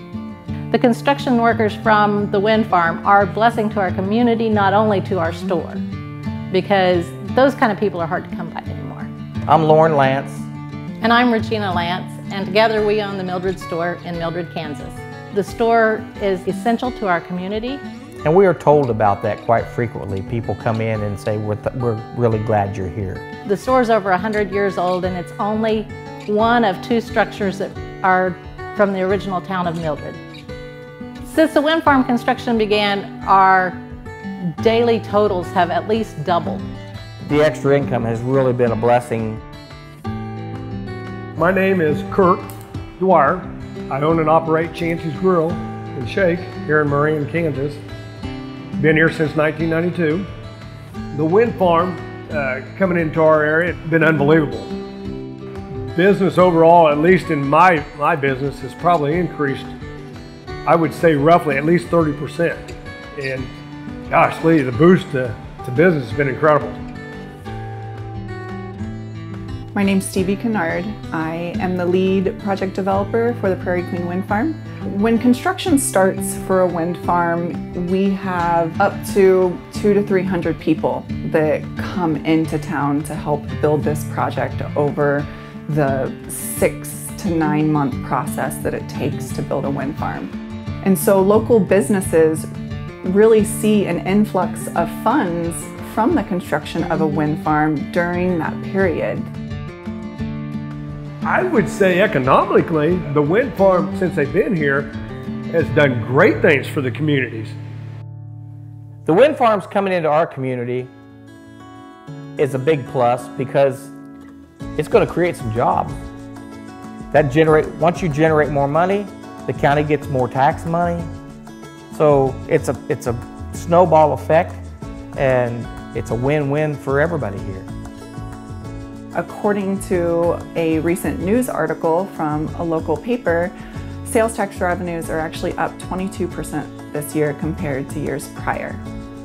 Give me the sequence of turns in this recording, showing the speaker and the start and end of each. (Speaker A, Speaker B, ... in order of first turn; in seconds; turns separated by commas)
Speaker A: 0.7-5.8, Speaker A: 6.5-9.1, Speaker B: 9.5-10.5, Speaker A: 11.0-17.8, Speaker B: 18.2-23.2, Speaker A: 23.4-30.2, Speaker A: 31.2-33.8, Speaker A: 34.6-36.6, Speaker B: 37.2-39.4, Speaker C: 41.4-42.5, Speaker C: 43.0-47.8, Speaker C: 48.8-50.3, Speaker C: 51.1-54.7, Speaker C: 55.9-59.7, Speaker C: 60.6-62.6, Speaker C: 63.1-63.5, Speaker C: 64.1-66.8, Speaker D: 69.7-90.3, Speaker D: 90.8-92.5, Speaker D: 93.0-99.3, Speaker C: 101.2-104.9, Speaker C: 105.5-107.6, Speaker B: 109.1-110.9, Speaker B: 112.4-113.9, Speaker B: 114.8-116.0, Speaker B: 117.1-121.1, Speaker B: 121.9-124.6, Speaker B: 125.2-127.7, Speaker D: 129.1-138.8